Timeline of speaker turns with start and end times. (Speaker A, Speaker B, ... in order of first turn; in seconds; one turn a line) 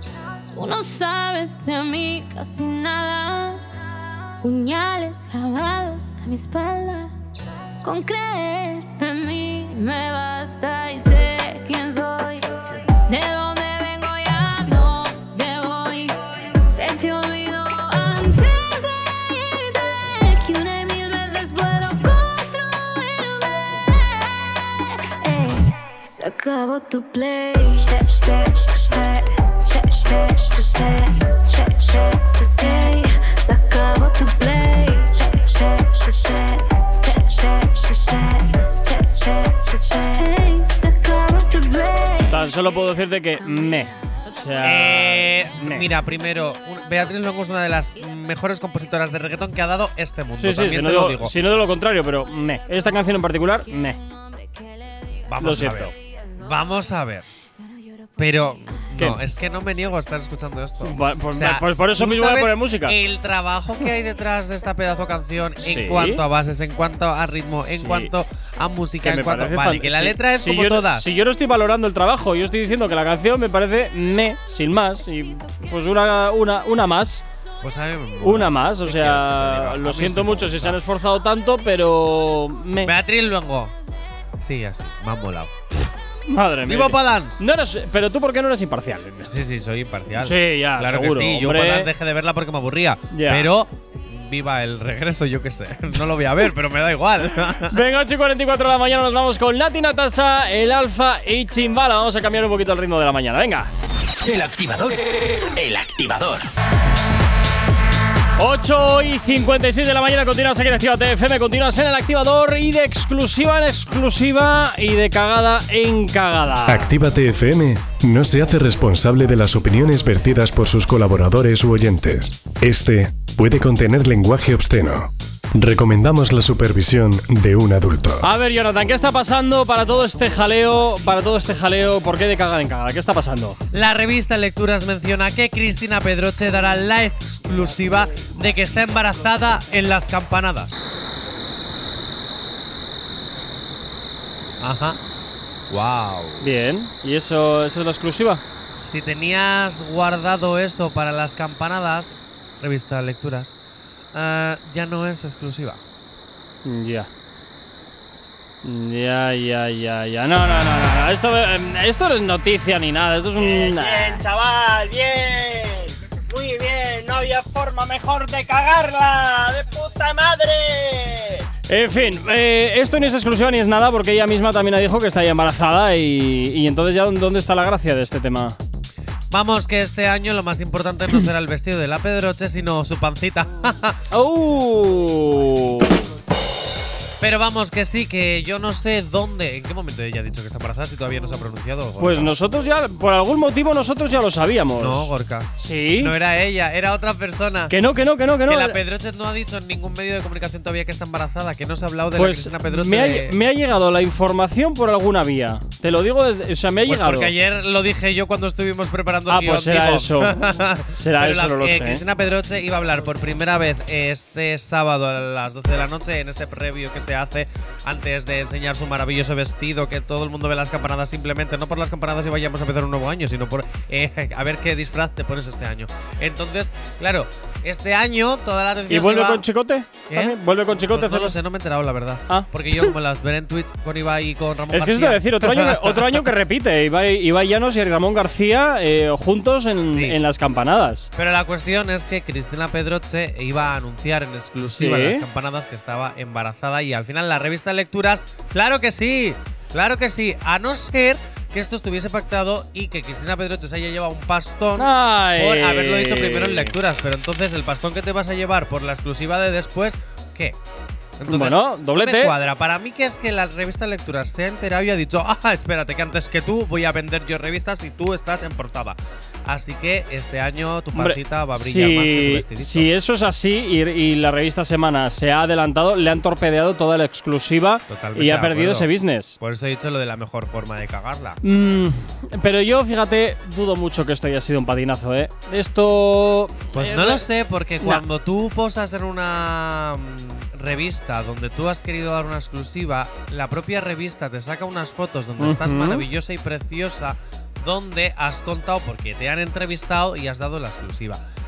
Speaker A: 0.5-3.6
Speaker A: 4.4-7.1
Speaker A: 7.8-12.4
Speaker A: 13.1-42.8
Speaker B: 42.3-45.9
Speaker A: 43.4-44.9
Speaker C: 44.6-51.3
Speaker A: 45.9-46.5
Speaker B: 50.4-54.0
Speaker A: 52.8-55.2
Speaker C: 55.3-57.2
Speaker B: 55.4-55.9
Speaker A: 56.0-56.4
Speaker A: 57.6-58.2
Speaker C: 58.2-71.0
Speaker B: 58.9-59.2
Speaker B: 60.8-63.0
Speaker B: 65.6-66.2
Speaker B: 67.7-68.1
Speaker B: 69.0-77.2
Speaker C: 77.6-80.8
Speaker B: 78.2-82.9
Speaker C: 82.8-83.7
Speaker C: 84.4-85.5
Speaker B: 86.3-89.3
Speaker C: 86.6-87.4
Speaker C: 89.2-97.8
Speaker B: 90.1-91.9
Speaker B: 93.1-93.5
Speaker B: 97.7-103.7
Speaker D: 104.2-106.4
Speaker B: 108.4-116.9
Speaker E: 116.7-128.2
Speaker B: 128.2-133.6
Speaker C: 133.7-140.9
Speaker C: 144.6-145.0
Speaker C: 145.7-146.4
Speaker B: 146.4-148.4
Speaker C: 148.8-153.6
Speaker C: 154.1-155.8
Speaker B: 156.6-157.1
Speaker B: 158.6-164.2
Speaker F: 163.4-171.5
Speaker B: 171.7-178.6
Speaker C: 179.3-184.0
Speaker B: 184.1-186.1
Speaker C: 187.2-192.3
Speaker B: 192.0-196.1
Speaker C: 194.8-197.7
Speaker B: 197.7-198.8
Speaker C: 198.4-203.3
Speaker B: 202.2-207.3
Speaker C: 206.9-229.4
Speaker B: 209.3-210.4
Speaker B: 210.9-212.0
Speaker B: 228.9-231.4
Speaker C: 230.1-236.2
Speaker B: 232.3-232.9
Speaker B: 234.7-241.1
Speaker C: 239.8-240.2
Speaker C: 241.2-260.6
Speaker B: 244.6-245.2
Speaker B: 254.8-256.7
Speaker C: 261.2-272.9
Speaker B: 261.3-262.3
Speaker B: 270.9-279.4
Speaker C: 277.9-281.4
Speaker B: 281.4-287.2
Speaker C: 286.7-301.2
Speaker B: 295.4-296.0